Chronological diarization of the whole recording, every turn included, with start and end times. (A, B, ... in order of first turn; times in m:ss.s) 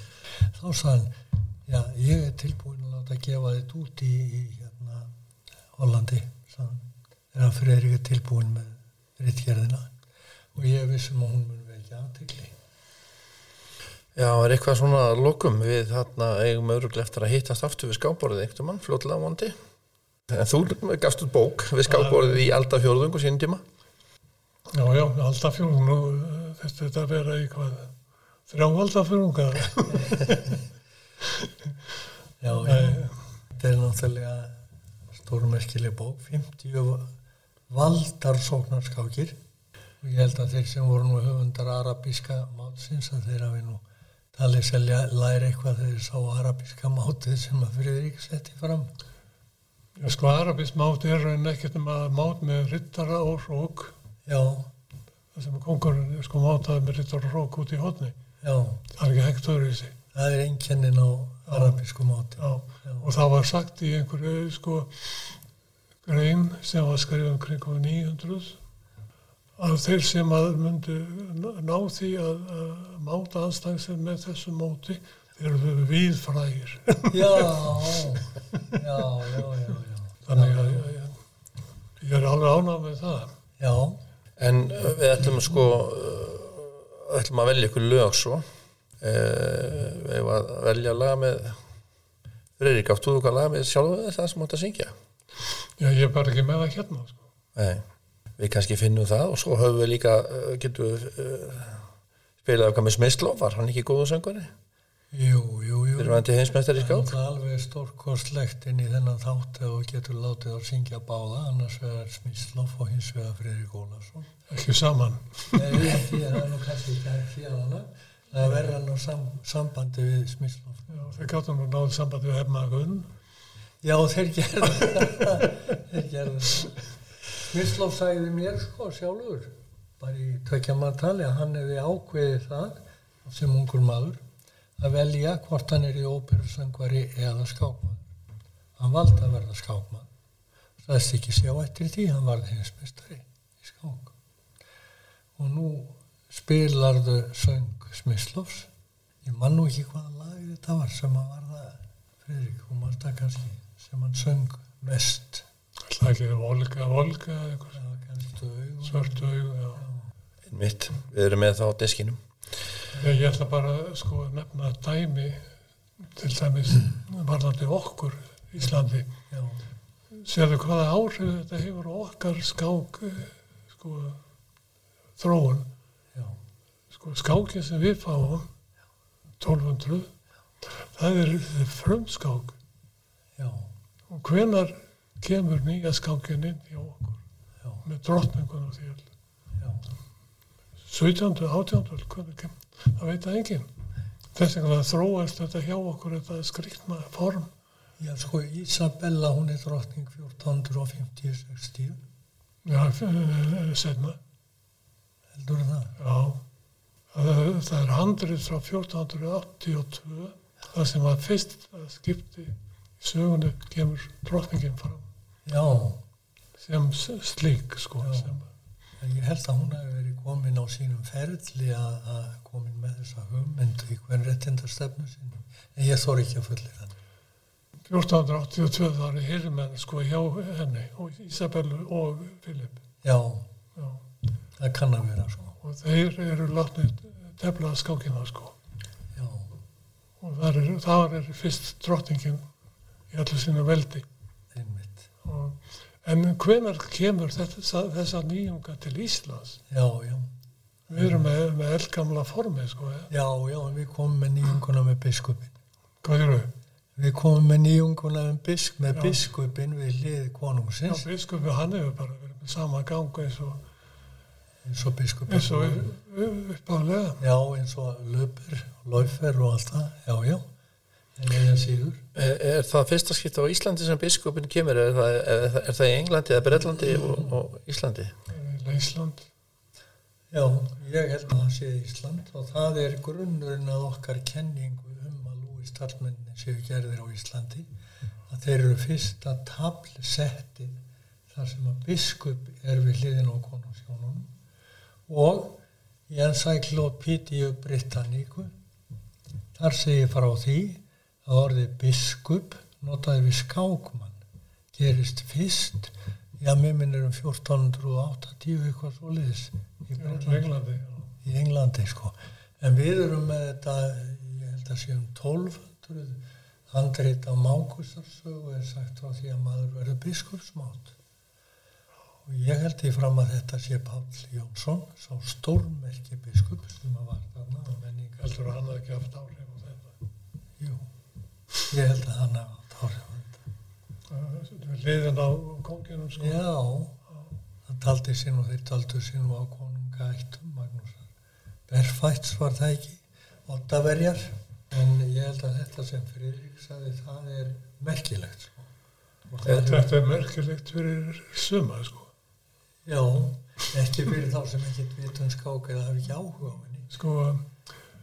0:00.4-0:05.1 A
0:05.7-0:09.9 A
0:10.5-0:12.5 A
0:14.1-0:19.6 B
0:20.3-0:23.6 B
0:21.9-0:22.4 C
0:24.7-0:27.9 C
0:28.5-0:30.6 C
0:29.9-0:30.5 A
0:32.4-0:34.6 A
0:32.5-0:33.2 C
0:35.1-0:37.1 A
0:37.7-0:39.4 A
0:40.0-0:43.8 A
0:44.3-0:48.9 A
0:50.0-0:53.9 C
0:54.2-0:54.7 A
0:55.3-0:58.2 C
0:58.4-0:58.8 A
0:58.9-1:00.0 C
1:00.1-1:03.1 A
1:01.5-1:01.8 C
1:02.4-1:05.3 C
1:06.0-1:08.6 C
1:09.6-1:17.9 C
1:17.1-1:20.8 A
1:20.2-1:21.2 C
1:22.0-1:23.3 C
1:23.6-1:24.0 A
1:24.4-1:28.4 B
1:29.0-1:31.6 B
1:32.6-1:34.9 B
1:35.8-1:37.2 C
1:37.6-1:37.8 B
1:38.4-1:41.8 B
1:42.4-1:44.5 B
1:45.1-1:54.3 A
1:46.0-1:47.1 B
1:54.5-1:55.9 C
1:55.5-2:00.9 A
2:00.9-2:03.1 C
2:03.8-2:06.8 A
2:07.4-2:14.2 A
2:14.8-2:18.1 A
2:18.8-2:20.1 A
2:20.8-2:24.1 A
2:25.4-2:28.7 A
2:29.2-2:35.4 A
2:35.9-2:37.8 C
2:37.7-2:40.1 A
2:38.8-2:39.8 C
2:40.5-2:42.2 B
2:43.0-2:45.5 C
2:46.0-2:49.1 C
2:49.3-2:49.6 A
2:50.1-2:54.2 C
2:55.2-2:55.7 C
2:56.9-2:58.5 C
2:59.4-3:00.1 C
3:00.8-3:02.6 C
3:03.4-3:03.7 A
3:04.1-3:07.2 C
3:07.8-3:09.0 C
3:10.9-3:13.7 C
3:14.3-3:17.5 C
3:18.0-3:22.0 A
3:22.6-3:24.2 C
3:25.3-3:25.9 A
3:26.0-3:26.4 C
3:27.1-3:35.1 C
3:35.4-3:36.0 A
3:36.6-3:38.5 C
3:38.0-3:38.3 A
3:39.0-3:46.9 A
3:47.9-3:52.8 C
3:53.0-3:53.5 A
3:53.8-3:54.0 C
3:54.6-3:55.6 A
3:55.6-3:58.6 C
3:59.1-3:59.6 A
4:00.2-4:02.4 C
4:03.1-4:04.0 C
4:04.5-4:05.0 A
4:05.2-4:09.6 C
4:09.7-4:10.3 A
4:10.9-4:13.1 C
4:11.0-4:11.2 A
4:13.1-4:15.5 A
4:16.0-4:16.5 C
4:17.0-4:21.0 A
4:18.9-4:19.2 C
4:20.8-4:23.6 C
4:24.6-4:25.8 A
4:25.3-4:27.2 C
4:27.2-4:30.5 A
4:31.2-4:32.0 A
4:32.1-4:38.1 B
4:38.3-4:39.3 C
4:40.3-4:47.7 A
4:48.3-4:50.8 A
4:51.3-4:54.3 A
4:55.1-4:58.5 A
4:59.5-5:04.2 A
5:04.7-5:10.5 A
5:10.0-5:11.1 C
5:11.2-5:20.9 A
5:22.2-5:28.3 A
5:28.2-5:30.0 C
5:30.6-5:30.9 A
5:31.7-5:33.4 A
5:34.1-5:36.4 C
5:36.2-5:37.0 A
5:37.6-5:41.1 A
5:41.7-5:48.7 A
5:49.3-5:49.9 A
5:49.4-5:52.1 C
5:52.8-5:56.9 A
5:56.9-5:57.5 C